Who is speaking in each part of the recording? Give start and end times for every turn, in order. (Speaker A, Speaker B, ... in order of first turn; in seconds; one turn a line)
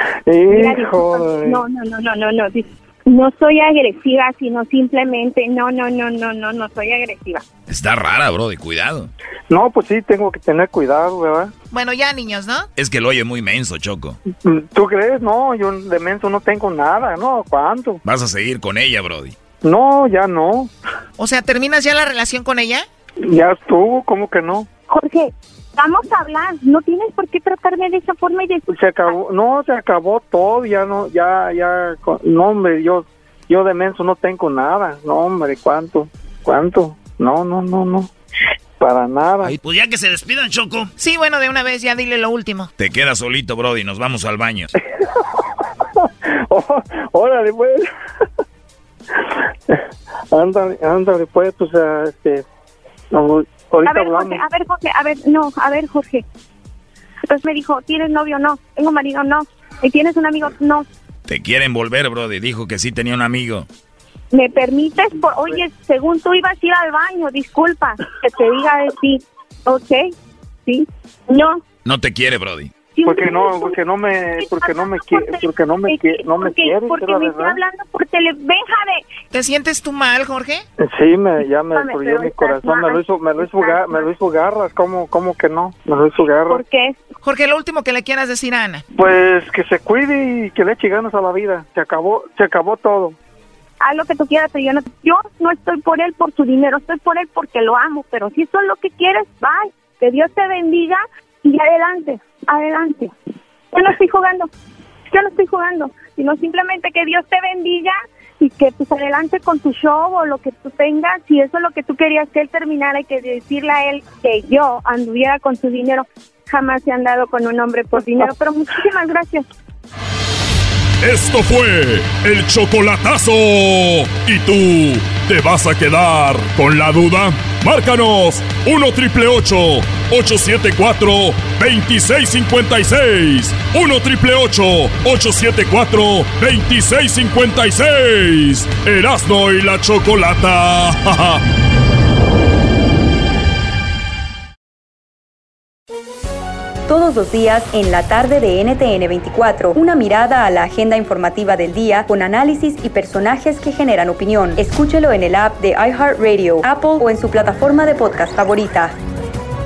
Speaker A: 0.2-1.6
Speaker B: 0.5-7.4
Speaker C: 7.7-9.1
Speaker A: 9.5-11.5
Speaker D: 11.7-12.7
Speaker C: 12.8-14.2
Speaker A: 14.4-18.0
Speaker C: 18.0-19.3
Speaker A: 19.6-20.7
Speaker D: 21.2-22.8
Speaker A: 23.2-24.7
Speaker B: 24.9-29.1
Speaker A: 28.7-38.1
Speaker A: 38.8-39.5
Speaker C: 39.4-40.9
Speaker D: 41.0-42.7
Speaker C: 42.8-44.7
Speaker A: 45.0-45.4
Speaker A: 46.0-47.8
Speaker A: 50.3-52.4
Speaker A: 53.1-54.4
Speaker B: 53.8-56.2
Speaker B: 57.3-60.9
Speaker C: 61.3-63.7
Speaker B: 64.3-70.1
Speaker B: 70.7-71.6
Speaker C: 71.8-72.7
Speaker B: 73.0-73.8
Speaker A: 73.0-77.6
Speaker B: 74.4-79.0
Speaker D: 79.3-80.6
Speaker A: 80.8-86.6
Speaker B: 81.7-84.1
Speaker B: 86.5-87.0
Speaker D: 87.2-88.8
Speaker A: 88.9-93.2
Speaker B: 93.8-103.1
Speaker B: 103.7-104.5
Speaker B: 105.1-119.5
Speaker E: 121.0-141.4
Speaker F: 146.9-158.9